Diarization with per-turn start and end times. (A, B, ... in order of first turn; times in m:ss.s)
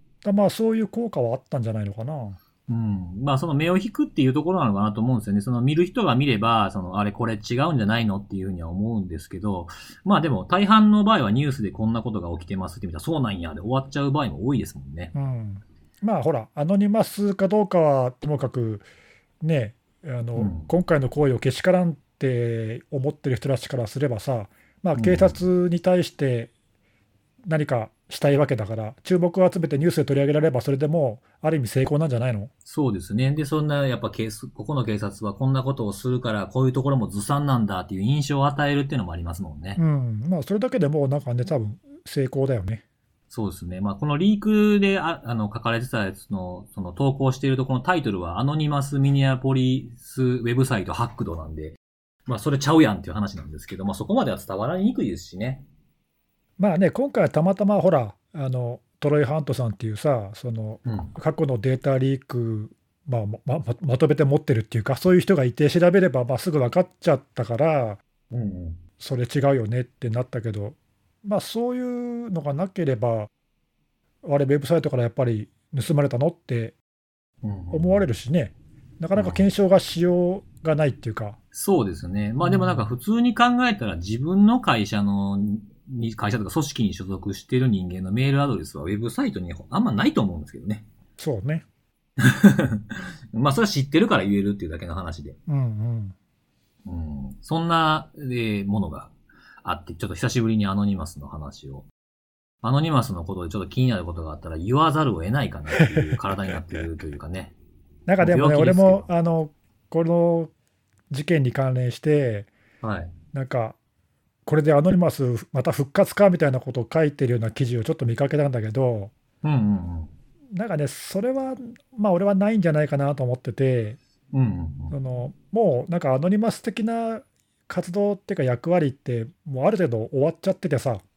0:00.2-0:02.4 A
0:02.7-0:15.1 B
0:15.1-0:18.8 A
0:19.4-0:26.5 A
0:20.4-0:20.7 B
0:25.0-0:25.4 B
0:27.4-0:32.5 A
0:32.6-0:39.8 B
0:39.8-0:42.8 A
0:43.3-0:55.6 B
0:56.6-1:08.0 A
1:00.8-1:01.1 B
1:08.3-1:08.8 B
1:09.0-1:13.3 A
1:14.2-1:16.8 A
1:17.4-1:18.1 B
1:17.7-1:21.4 A
1:19.1-1:19.5 B
1:21.5-1:30.8 B
1:22.4-1:22.9 A
1:31.2-1:31.6 A
1:32.2-1:35.4 B
1:35.5-1:36.1 A
1:36.8-1:39.1 B
1:39.6-1:41.8 B
1:42.6-1:47.5 B
1:45.7-1:46.1 A
1:48.1-1:50.5 A
1:48.2-1:49.1 B
1:51.1-1:52.5 A
1:52.8-1:53.1 B
1:53.3-1:53.8 A
1:54.4-1:59.1 A
1:59.4-2:00.1 B
2:00.5-2:04.0 A
2:04.3-2:05.0 B
2:04.9-2:11.0 A